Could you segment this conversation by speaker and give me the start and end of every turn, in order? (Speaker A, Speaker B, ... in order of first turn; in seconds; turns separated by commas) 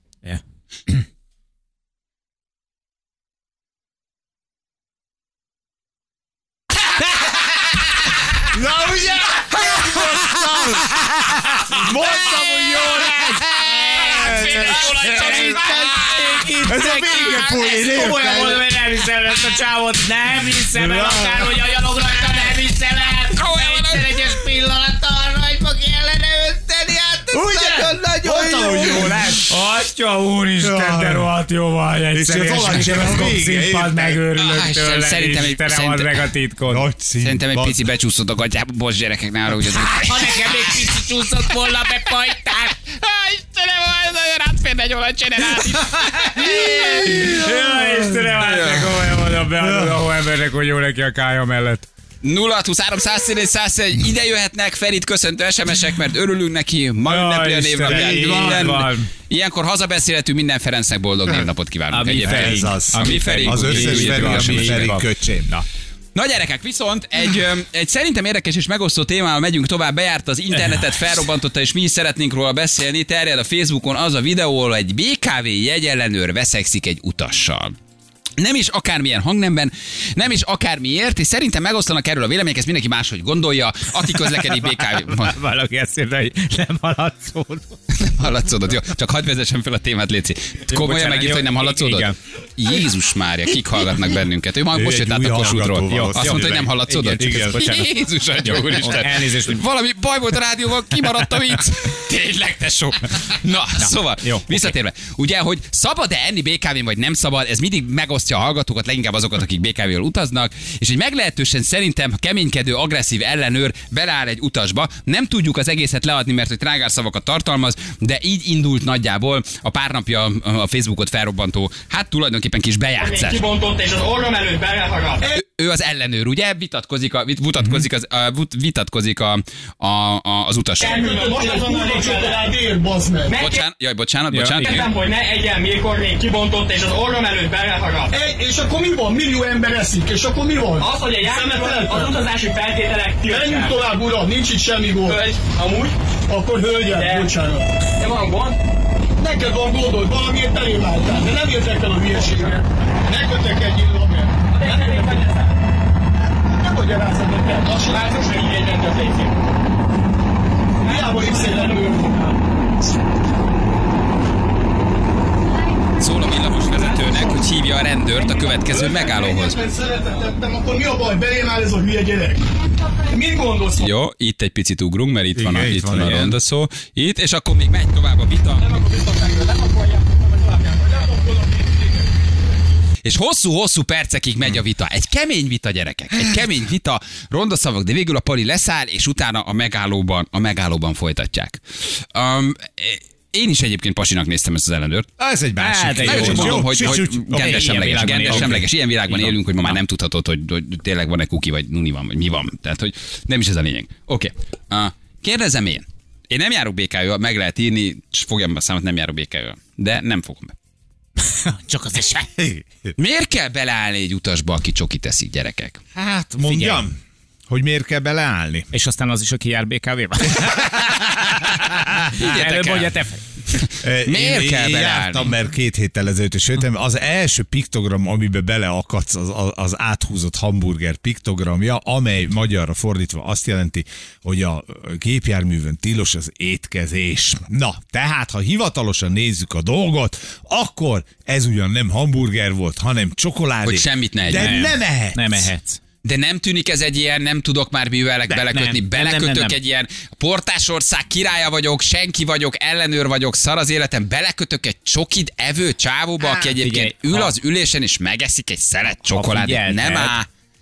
Speaker A: 0.2-1.0, Speaker B: 8.5-18.6, Speaker A: 11.8-36.9, Speaker C: 13.6-16.6, Speaker C: 17.2-17.7, Speaker B: 20.7-21.5, Speaker C: 23.3-24.2, Speaker B: 27.3-29.4, Speaker B: 30.6-31.3, Speaker B: 32.1-34.2, Speaker C: 34.3-36.3, Speaker B: 36.7-37.8, Speaker C: 37.2-41.0, Speaker A: 39.7-42.7, Speaker C: 41.6-47.5, Speaker A: 45.7-51.9, Speaker B: 47.5-48.1, Speaker C: 48.3-49.0, Speaker B: 49.6-49.9, Speaker C: 52.2-64.9, Speaker A: 57.0-59.1, Speaker B: 57.8-58.9, Speaker A: 61.9-65.6, Speaker B: 62.2-65.5, Speaker C: 66.1-77.7, Speaker A: 70.5-70.8, Speaker C: 78.4-85.3, Speaker A: 84.2-87.7, Speaker C: 87.9-123.5, Speaker A: 90.7-92.1, Speaker B: 94.7-97.8, Speaker A: 95.5-99.6, Speaker A: 103.8-104.7, Speaker D: 123.0-125.3, Speaker C: 125.3-131.1, Speaker D: 130.8-132.6, Speaker E: 130.8-133.4, Speaker D: 133.3-133.6, Speaker C: 133.4-134.9, Speaker A: 134.3-134.9, Speaker D: 134.5-138.2, Speaker E: 138.1-142.2, Speaker D: 140.8-143.9, Speaker E: 143.3-145.2, Speaker D: 145.0-146.0, Speaker E: 146.3-147.7, Speaker D: 146.8-147.4, Speaker D: 148.0-148.6, Speaker E: 149.2-155.2, Speaker D: 152.1-152.6, Speaker D: 154.5-155.5, Speaker E: 156.5-158.4, Speaker D: 157.4-159.3, Speaker E: 160.8-162.3, Speaker D: 160.8-162.1, Speaker C: 166.0-169.6, Speaker E: 166.8-167.3, Speaker E: 168.6-172.4, Speaker E: 173.1-173.9, Speaker C: 173.7-178.8, Speaker B: 175.3-176.4, Speaker D: 178.7-180.7, Speaker C: 183.0-191.6, Speaker C: 192.1-195.1, Speaker B: 195.2-198.7, Speaker A: 195.6-199.8, Speaker C: 196.0-210.5, Speaker A: 211.2-212.2, Speaker B: 212.1-212.7, Speaker C: 213.0-215.8, Speaker B: 215.9-216.9, Speaker A: 216.4-216.8, Speaker B: 217.5-218.7, Speaker A: 218.7-223.2, Speaker B: 220.4-220.9, Speaker C: 220.7-222.9, Speaker C: 223.5-225.3, Speaker B: 223.8-245.5, Speaker C: 243.6-244.6, Speaker A: 244.3-245.8, Speaker C: 246.0-260.2, Speaker A: 248.3-249.6, Speaker A: 256.4-257.3, Speaker A: 259.1-260.2